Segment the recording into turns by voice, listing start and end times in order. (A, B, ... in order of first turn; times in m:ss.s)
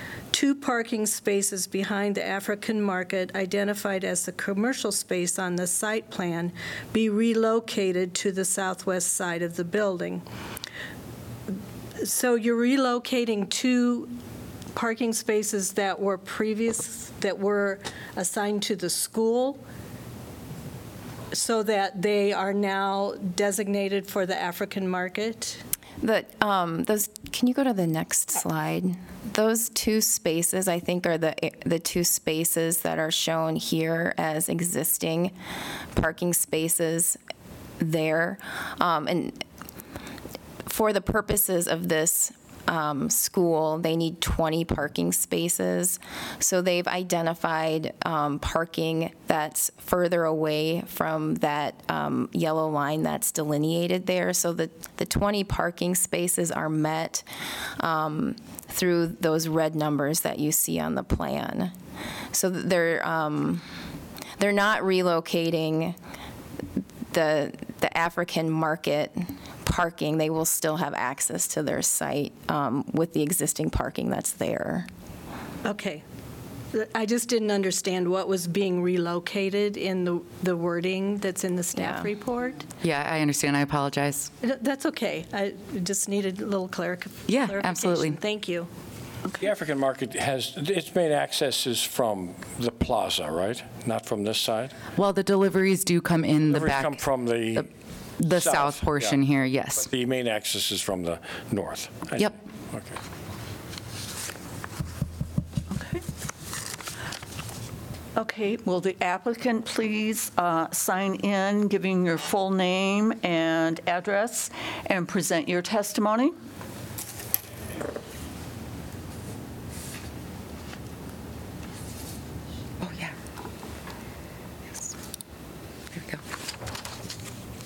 0:00.3-0:10.2 A
0:12.0-0:14.1 A
0:14.8-0:19.6 A
0:21.3-0:25.6 A
0:26.0-0:35.3 B
0:36.0-0:37.2 B
0:37.8-0:39.4 B
0:40.6-0:57.2 B
0:57.8-1:01.7 B
1:02.3-1:03.6 B
1:04.4-1:06.0 B
1:07.1-1:14.9 B
1:15.6-1:16.0 A
1:16.7-1:22.7 A
1:21.8-1:22.1 B
1:22.8-1:24.3 C
1:24.4-1:28.7 A
1:27.3-1:28.2 C
1:29.4-1:34.8 D
1:35.0-1:37.7 C
1:36.5-1:37.7 D
1:38.2-1:39.9 C
1:38.3-1:39.2 D
1:39.8-1:43.0 D
1:45.7-1:46.0 E
1:48.2-1:56.3 E
2:02.8-2:03.1 C
2:06.0-2:06.2 C